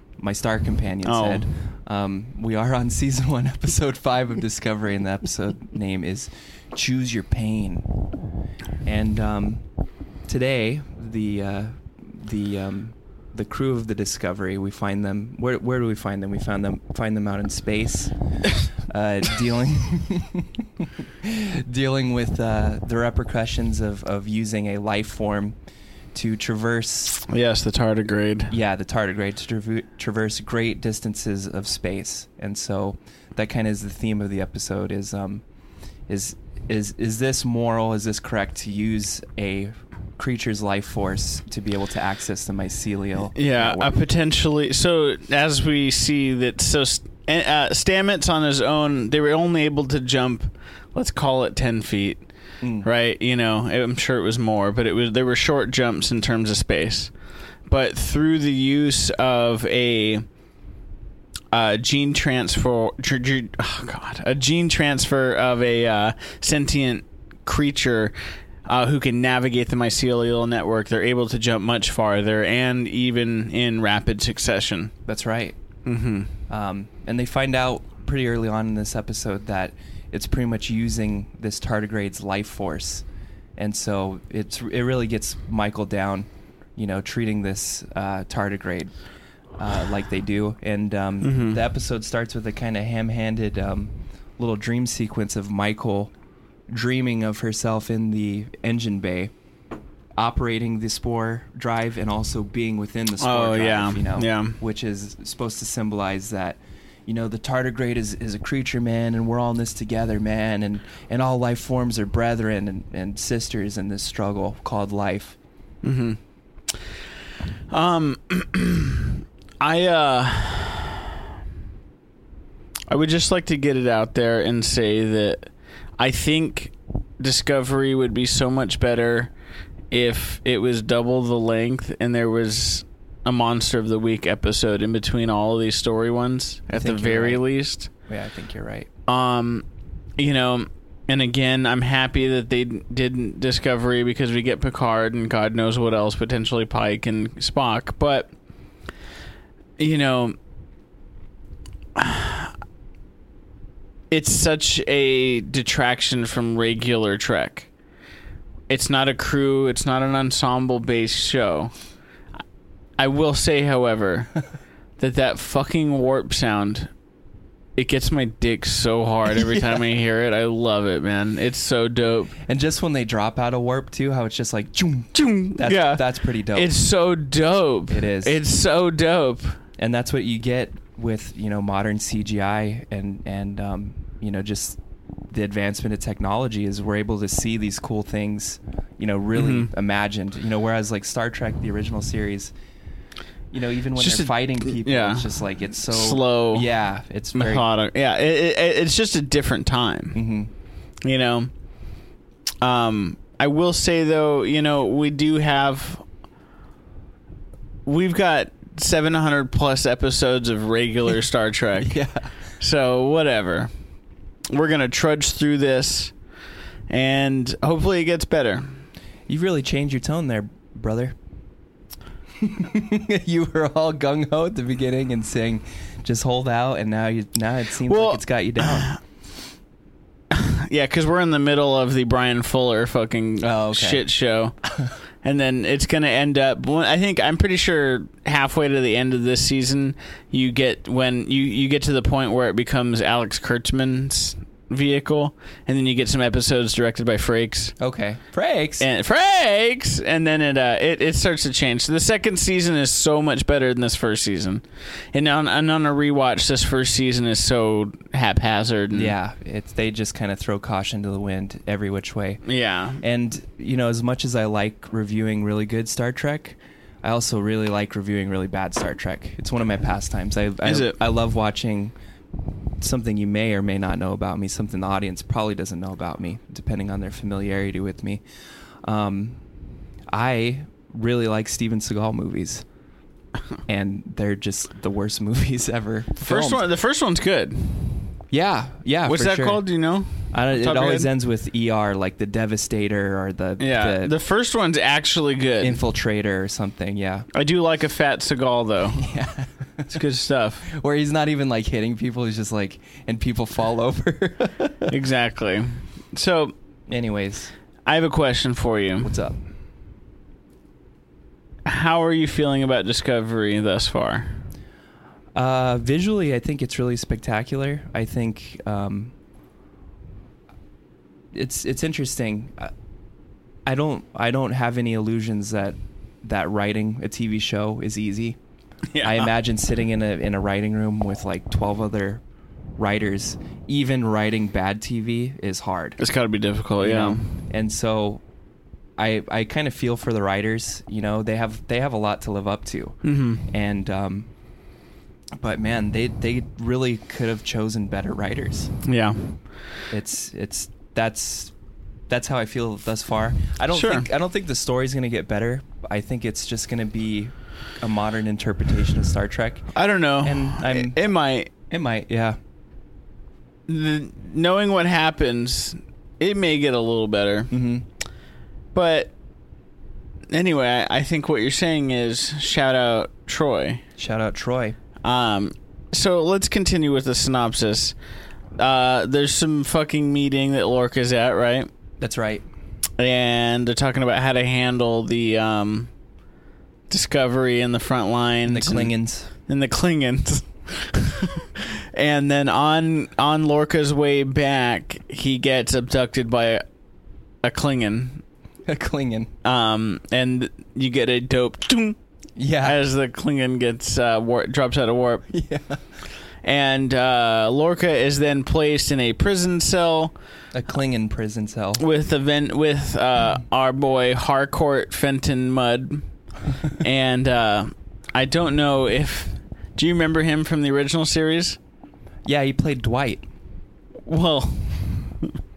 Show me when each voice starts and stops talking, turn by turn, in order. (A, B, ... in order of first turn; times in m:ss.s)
0:00.2-0:07.9 A
0:01.0-0:01.4 B
0:08.8-0:09.6 A
0:10.3-0:20.6 A
0:21.2-0:25.6 A
0:26.1-0:27.2 A
0:27.2-0:28.5 B
0:28.5-0:35.4 A
0:36.1-0:44.0 A
0:43.4-0:52.2 B
0:52.6-0:52.9 A
0:52.8-0:57.1 B
0:57.7-1:00.2 B
1:01.5-1:08.1 B
1:08.6-1:14.9 B
1:15.0-1:15.6 A
1:15.8-1:16.3 B
1:16.5-1:23.0 A
1:23.6-1:28.9 A
1:29.6-1:36.1 A
1:31.2-1:31.6 B
1:36.7-1:39.3 A
1:40.2-1:55.4 A
1:43.2-1:44.6 B
1:55.8-1:56.2 B
1:57.7-2:01.1 B
2:02.9-2:09.3 B
2:09.9-2:17.9 B
2:16.7-2:17.4 A
2:18.1-2:18.9 A
2:19.1-2:19.6 B
2:20.2-2:28.3 B
2:29.8-2:30.4 B
2:32.0-2:32.5 B
2:34.1-2:37.7 B
2:38.7-2:41.7 B
2:43.0-2:44.3 B
2:45.0-2:46.9 B
2:47.8-2:52.3 B
2:52.4-2:56.7 A
2:55.1-2:59.6 B
2:57.9-2:58.4 A
2:59.8-3:04.8 A
3:05.3-3:12.5 A
3:09.3-3:09.7 B
3:13.5-3:17.7 A
3:14.0-3:15.3 B
3:15.9-3:16.7 B
3:17.3-3:20.2 B
3:20.1-3:20.5 A
3:21.0-3:21.5 B
3:22.6-3:26.0 B
3:27.8-3:32.0 B
3:31.8-3:32.2 A
3:32.6-3:33.7 B
3:34.5-3:36.1 B
3:36.9-3:38.7 B
3:39.3-3:41.1 A
3:42.4-3:48.9 A
3:47.9-3:49.0 B
3:50.3-3:54.6 B
3:53.4-3:54.0 A
3:55.2-4:07.7 B
4:07.8-4:08.9 A
4:08.8-4:19.1 B
4:18.9-4:22.4 A
4:22.4-4:23.0 B
4:23.0-4:31.9 A
4:30.6-4:31.0 B
4:32.8-4:38.2 A
4:38.8-4:39.4 A
4:40.1-4:42.6 A
4:43.7-4:46.6 A
4:46.2-4:48.1 B
4:48.3-4:49.6 A
4:49.0-4:51.1 B
4:50.3-4:54.1 A
4:53.6-4:55.8 B
4:55.6-4:57.3 A
4:57.3-4:59.1 B
4:58.9-5:00.0 A
4:59.9-5:00.7 B
5:00.6-5:04.9 A
5:04.9-5:06.5 B
5:06.9-5:07.5 A
5:07.9-5:09.1 B
5:09.0-5:09.4 A
5:11.6-5:14.4 B
5:15.3-5:19.1 A
5:21.3-5:22.7 A
5:23.6-5:28.4 A
5:28.9-5:29.3 B
5:29.0-5:32.2 A
5:32.8-5:36.0 A
5:36.0-5:37.3 B
5:36.8-5:38.2 A
5:39.0-5:44.3 A
5:43.0-5:43.5 B
5:45.4-5:48.7 A
5:48.8-5:49.3 B
5:49.9-5:51.5 A
5:52.1-5:59.7 A
5:53.7-5:54.1 B
5:59.7-6:01.5 B
6:00.2-6:01.0 A
6:01.7-6:02.4 A
6:03.7-6:07.5 B
6:07.5-6:07.8 A
6:08.7-6:09.1 B
6:10.3-6:13.8 B
6:14.0-6:14.8 A
6:15.0-6:18.0 B
6:18.6-6:21.7 B
6:22.0-6:22.4 A
6:23.0-6:25.9 B
6:26.9-6:28.9 B
6:28.4-6:29.3 A
6:29.5-6:36.6 B
6:37.4-6:38.2 B
6:38.7-6:39.3 A
6:39.4-6:42.0 B
6:42.4-6:42.8 A
6:42.6-6:45.3 B
6:45.3-6:45.8 A
6:46.4-6:50.1 B
6:50.5-6:51.8 A
6:51.8-6:56.0 B
6:56.7-7:01.6 B
7:02.2-7:03.2 A
7:04.0-7:05.3 B